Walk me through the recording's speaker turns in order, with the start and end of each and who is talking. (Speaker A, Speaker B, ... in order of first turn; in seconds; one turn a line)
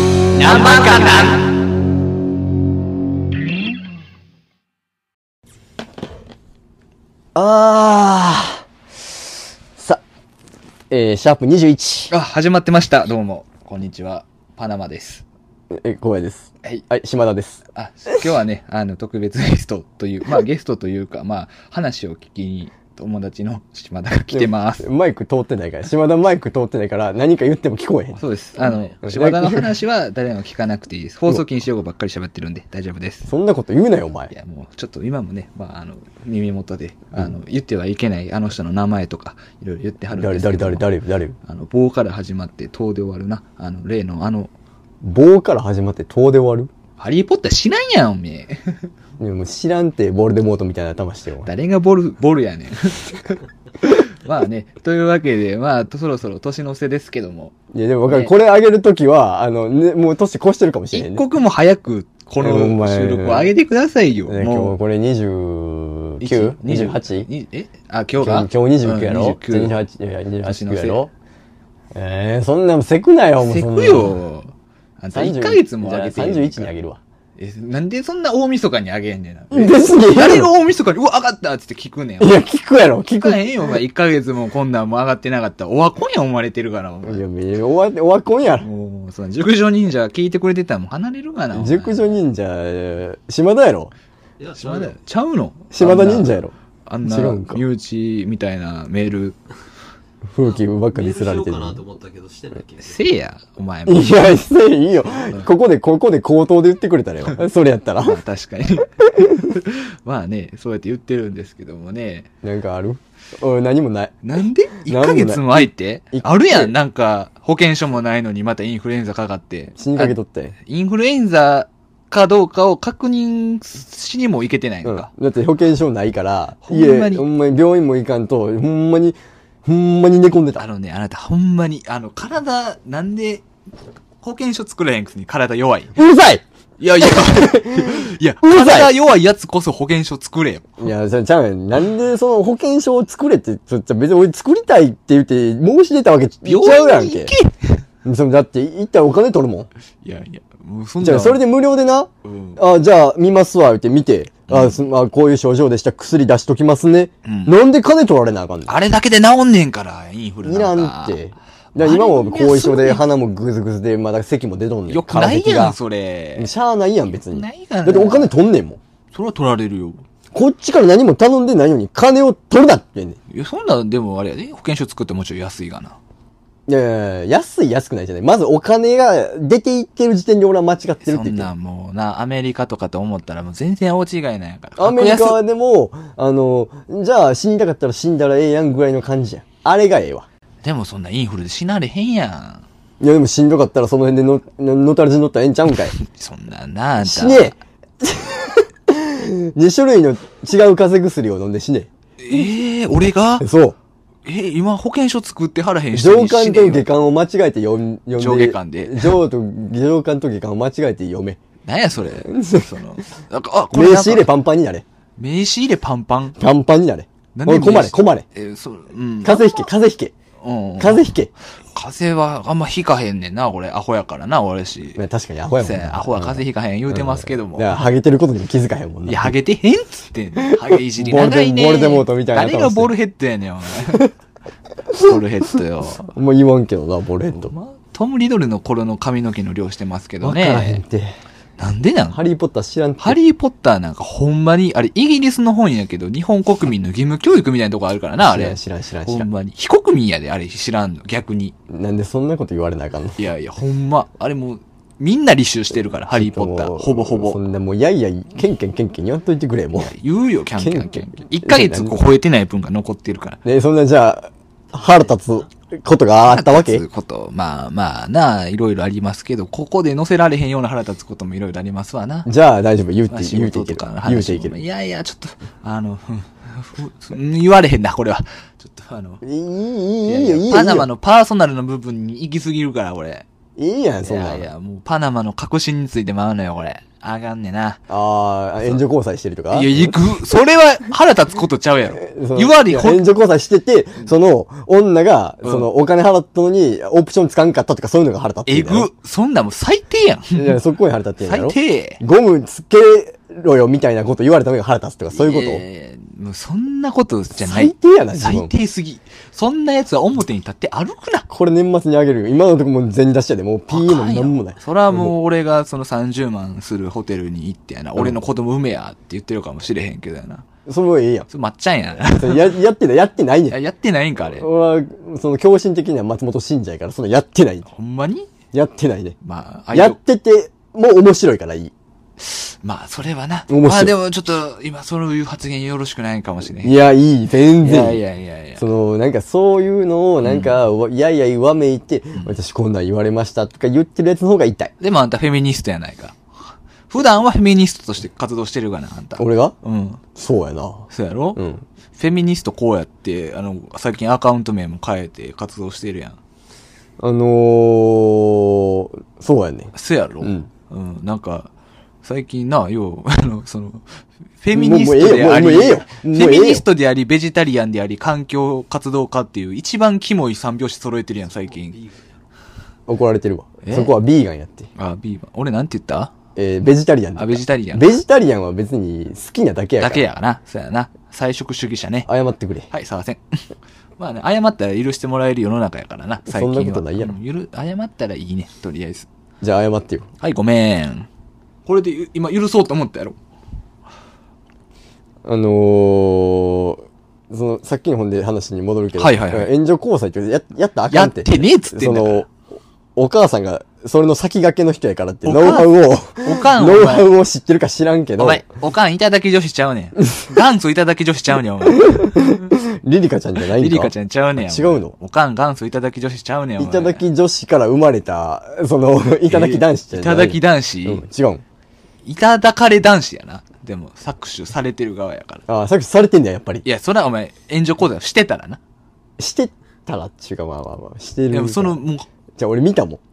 Speaker A: 0.3-1.6
Speaker B: 7.3-8.6
Speaker B: 9.8-10.0
Speaker B: 10.9-12.1
Speaker A: 12.1-15.2
Speaker B: 15.7-17.6
Speaker A: 17.8-24.9
Speaker B: 24.3-28.2
Speaker A: 28.2-33.3
Speaker C: 28.6-29.0
Speaker B: 29.0-29.7
Speaker B: 33.3-34.3
Speaker A: 34.3-40.9
Speaker B: 40.1-41.4
Speaker A: 41.4-44.5
Speaker B: 45.0-46.7
Speaker A: 47.0-48.9
Speaker B: 49.2-51.5
Speaker A: 51.5-57.5
Speaker B: 57.7-61.2
Speaker A: 58.1-58.3
Speaker A: 60.9-64.8
Speaker B: 62.4-63.5
Speaker B: 64.3-67.3
Speaker A: 66.2-69.8
Speaker B: 68.2-71.1
Speaker A: 70.5-71.0
Speaker B: 71.9-74.2
Speaker A: 73.4-76.7
Speaker B: 75.1-77.0
Speaker A: 77.4-82.4
Speaker B: 79.5-80.5
Speaker B: 82.2-83.8
Speaker A: 83.2-87.2
Speaker B: 87.0-88.7
Speaker A: 88.6-92.2
Speaker B: 91.5-93.9
Speaker C: 94.4-94.9
Speaker A: 94.6-96.3
Speaker B: 95.7-97.6
Speaker A: 96.9-99.4
Speaker B: 100.3-101.8
Speaker C: 100.5-103.0
Speaker A: 102.8-104.3
Speaker B: 103.9-108.2
Speaker A: 108.0-112.3
Speaker B: 109.1-109.6
Speaker B: 112.4-114.2
Speaker A: 114.2-125.1
Speaker B: 114.9-116.7
Speaker B: 119.8-120.5
Speaker B: 124.8-130.6
Speaker A: 126.7-127.2
Speaker A: 130.6-133.4
Speaker A: 134.2-136.0
Speaker B: 136.0-136.4
Speaker A: 136.8-140.9
Speaker B: 137.0-138.9
Speaker B: 140.8-147.3
Speaker A: 146.4-147.8
Speaker B: 148.0-149.7
Speaker A: 150.0-151.4
Speaker B: 151.0-158.8
Speaker A: 152.2-152.6
Speaker A: 154.5-154.8
Speaker A: 157.2-157.5
Speaker A: 158.7-161.2
Speaker B: 160.4-165.8
Speaker A: 161.8-163.1
Speaker A: 164.9-166.5
Speaker B: 166.4-168.8
Speaker A: 167.3-168.3
Speaker A: 169.1-170.0
Speaker B: 170.3-173.2
Speaker A: 173.3-176.0
Speaker B: 176.7-181.5
Speaker A: 181.0-185.4
Speaker B: 184.8-190.3
Speaker A: 190.6-192.7
Speaker B: 193.0-195.9
Speaker A: 195.9-197.5
Speaker B: 197.0-202.5
Speaker A: 202.2-203.5
Speaker B: 203.4-203.8
Speaker A: 204.2-206.9
Speaker B: 205.9-211.4
Speaker A: 208.2-209.2
Speaker A: 211.7-214.3
Speaker B: 212.3-212.7
Speaker B: 213.7-214.8
Speaker A: 215.2-216.4
Speaker B: 216.4-218.2
Speaker A: 217.3-219.4
Speaker B: 219.2-220.2
Speaker A: 220.4-221.1
Speaker B: 220.8-221.3
Speaker A: 221.7-225.0
Speaker B: 225.0-229.3
Speaker A: 225.6-227.8
Speaker A: 229.1-234.1
Speaker B: 230.9-232.9
Speaker A: 234.9-236.1
Speaker B: 236.1-237.5
Speaker A: 237.4-240.8
Speaker B: 240.2-241.2
Speaker A: 241.6-242.2
Speaker B: 242.1-243.2
Speaker A: 243.0-251.5
Speaker B: 248.2-249.3
Speaker B: 251.7-253.2
Speaker A: 253.2-257.4
Speaker B: 256.1-259.9
Speaker A: 259.8-263.4
Speaker B: 260.6-262.0
Speaker B: 263.4-266.8
Speaker A: 266.2-272.3
Speaker B: 272.2-274.6
Speaker A: 273.1-279.2
Speaker B: 279.2-280.9
Speaker A: 280.1-283.2
Speaker B: 283.6-284.5
Speaker A: 284.1-287.8
Speaker B: 287.9-290.0
Speaker A: 289.5-293.1
Speaker B: 292.0-298.9
Speaker A: 295.4-295.7
Speaker A: 298.5-300.6
Speaker B: 300.4-305.6
Speaker A: 301.2-302.0
Speaker A: 305.1-311.3
Speaker B: 307.4-308.5
Speaker B: 311.3-315.1
Speaker A: 313.7-320.5
Speaker B: 320.7-321.3
Speaker A: 321.3-322.5
Speaker B: 322.1-323.6
Speaker A: 323.5-324.5
Speaker B: 324.2-327.7
Speaker A: 327.7-328.3
Speaker B: 328.5-329.2
Speaker A: 329.2-330.0
Speaker B: 329.7-331.7
Speaker A: 332.2-336.8
Speaker B: 333.5-333.9
Speaker B: 336.6-338.0
Speaker A: 337.6-338.6
Speaker B: 338.6-344.7
Speaker A: 340.2-340.5
Speaker A: 344.8-346.2
Speaker A: 346.9-350.0
Speaker B: 349.2-349.6
Speaker B: 350.1-351.6
Speaker A: 350.9-351.4
Speaker A: 351.9-356.2
Speaker B: 357.0-360.5
Speaker A: 359.7-361.5
Speaker A: 362.0-363.8
Speaker A: 364.4-371.8
Speaker B: 364.5-366.6
Speaker B: 372.9-374.7
Speaker A: 373.6-373.9
Speaker A: 374.8-376.1
Speaker B: 376.4-380.1
Speaker A: 377.2-378.0
Speaker A: 379.8-382.1
Speaker B: 382.1-382.7
Speaker A: 382.7-383.4
Speaker A: 384.0-389.1
Speaker B: 386.3-387.2
Speaker B: 389.4-390.1
Speaker A: 390.2-391.1
Speaker A: 391.7-393.2
Speaker B: 395.2-402.3
Speaker A: 399.0-399.5
Speaker A: 400.9-402.3
Speaker B: 403.0-408.4
Speaker A: 405.2-407.1
Speaker A: 408.2-412.5
Speaker B: 411.8-414.9
Speaker A: 413.5-417.0
Speaker B: 416.6-421.4
Speaker A: 419.3-421.0
Speaker A: 422.1-425.4
Speaker B: 425.5-426.6
Speaker A: 426.6-428.6
Speaker B: 429.2-431.8
Speaker A: 431.3-432.1
Speaker B: 432.4-433.0